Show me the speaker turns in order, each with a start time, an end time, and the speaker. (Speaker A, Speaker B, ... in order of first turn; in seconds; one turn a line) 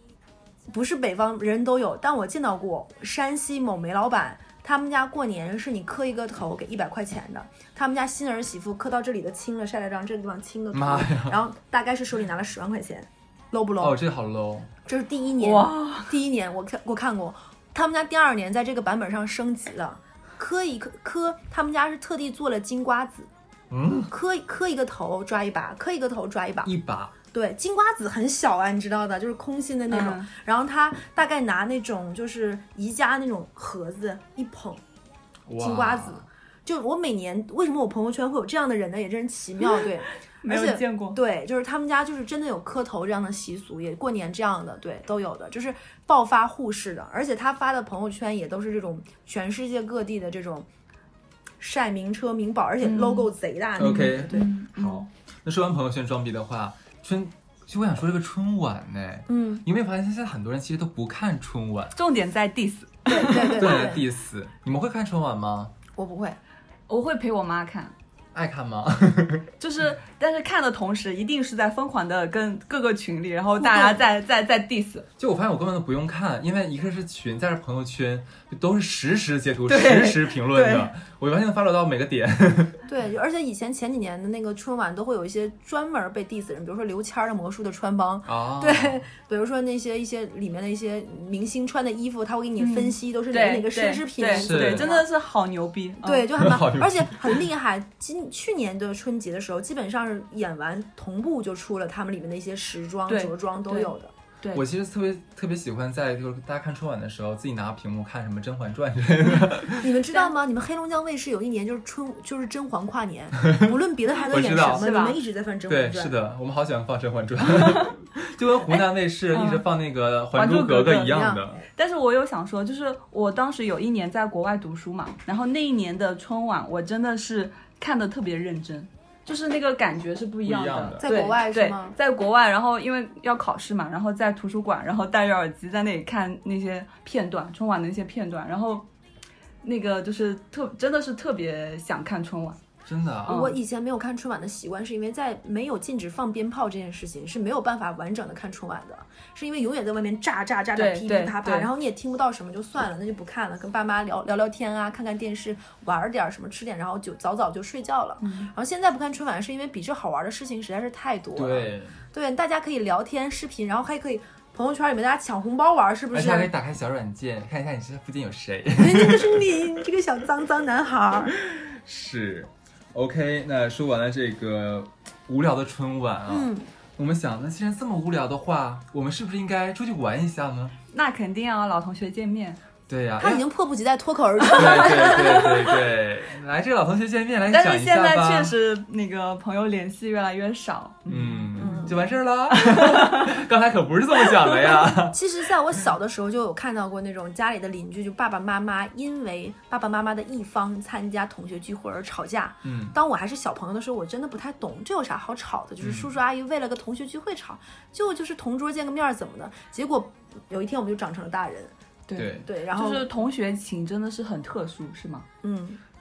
Speaker A: 0.7-14.0
Speaker B: 10.7-11.4
Speaker B: 13.8-14.7
Speaker A: 14.8-23.3
Speaker C: 15.4-16.1
Speaker B: 23.7-24.1
Speaker A: 24.1-26.7
Speaker B: 26.6-27.1
Speaker A: 27.3-34.8
Speaker C: 29.9-30.3
Speaker B: 35.5-36.2
Speaker A: 35.5-50.7
Speaker C: 40.4-41.2
Speaker A: 51.6-54.5
Speaker C: 52.8-55.0
Speaker B: 53.8-62.0
Speaker A: 59.3-59.6
Speaker C: 62.0-63.9
Speaker A: 63.1-64.0
Speaker B: 63.5-65.7
Speaker A: 66.0-66.4
Speaker C: 66.9-67.9
Speaker B: 68.3-69.5
Speaker C: 69.6-75.1
Speaker A: 73.5-74.0
Speaker B: 75.2-82.8
Speaker C: 79.7-80.9
Speaker A: 82.9-95.1
Speaker B: 88.2-89.0
Speaker C: 92.6-96.3
Speaker B: 94.3-94.9
Speaker A: 96.0-104.1
Speaker B: 96.4-97.4
Speaker C: 103.1-104.6
Speaker B: 104.5-110.0
Speaker A: 109.8-116.1
Speaker B: 114.3-114.9
Speaker C: 114.5-115.2
Speaker B: 115.7-121.6
Speaker C: 117.6-117.9
Speaker C: 119.3-119.7
Speaker C: 120.3-138.8
Speaker A: 121.1-121.5
Speaker B: 130.4-131.0
Speaker A: 131.0-131.9
Speaker C: 139.6-142.6
Speaker B: 142.8-143.4
Speaker C: 143.2-143.6
Speaker A: 143.3-166.5
Speaker C: 150.7-151.7
Speaker C: 158.2-158.5
Speaker B: 161.3-162.0
Speaker B: 166.1-169.5
Speaker A: 168.7-171.4
Speaker B: 171.4-180.7
Speaker A: 176.3-176.7
Speaker C: 180.9-182.6
Speaker B: 182.9-183.4
Speaker A: 183.2-185.5
Speaker C: 184.5-185.7
Speaker B: 184.5-188.5
Speaker C: 187.5-191.8
Speaker B: 191.1-195.2
Speaker A: 191.6-192.0
Speaker C: 192.5-193.4
Speaker C: 194.3-194.8
Speaker A: 195.1-211.7
Speaker B: 202.6-202.9
Speaker B: 205.8-206.1
Speaker C: 212.1-215.2
Speaker B: 212.2-212.4
Speaker A: 212.4-213.1
Speaker A: 215.4-215.8